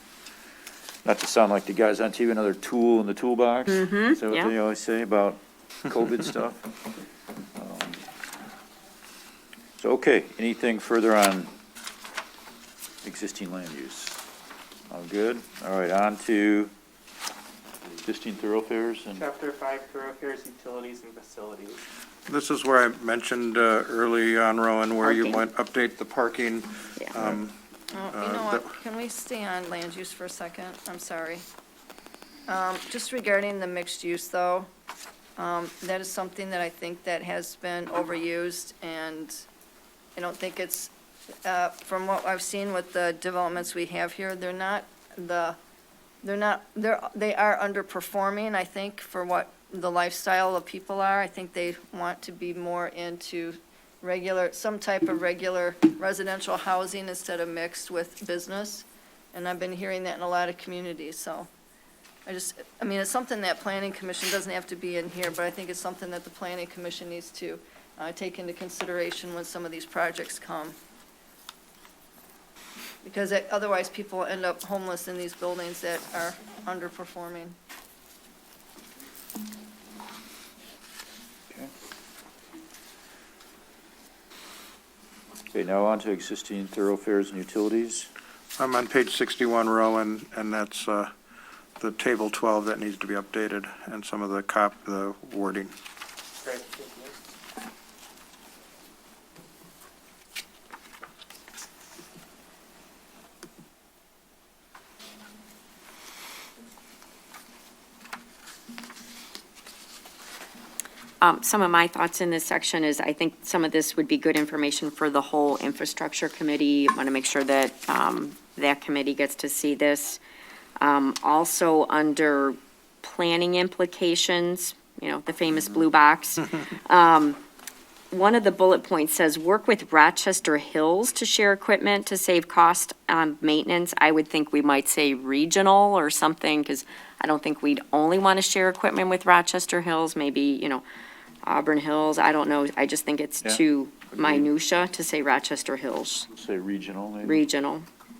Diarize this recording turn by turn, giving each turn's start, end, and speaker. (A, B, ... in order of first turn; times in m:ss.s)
0:01.0-0:06.7 A
0:03.7-0:04.5 B
0:07.6-0:08.0 A
0:09.8-0:11.5 A
0:13.0-0:14.2 A
0:14.9-0:16.7 A
0:18.0-0:19.2 A
0:19.1-0:21.8 C
0:22.3-0:27.5 D
0:25.0-0:25.4 B
0:27.9-0:31.4 E
0:28.1-0:28.8 D
0:32.5-0:34.7 E
0:35.4-0:39.4 E
0:40.2-0:40.9 E
0:41.4-0:45.6 E
0:46.2-1:01.5 E
1:02.2-1:10.8 E
1:13.0-1:17.6 E
1:25.5-1:28.1 A
1:28.6-1:31.1 D
1:31.8-1:35.7 D
1:36.4-1:37.1 C
1:51.2-2:00.2 B
2:00.8-2:07.4 B
2:08.1-2:20.8 B
2:21.4-2:26.3 B
2:24.1-2:24.5 A
2:26.3-2:27.4 A
2:27.2-2:27.8 B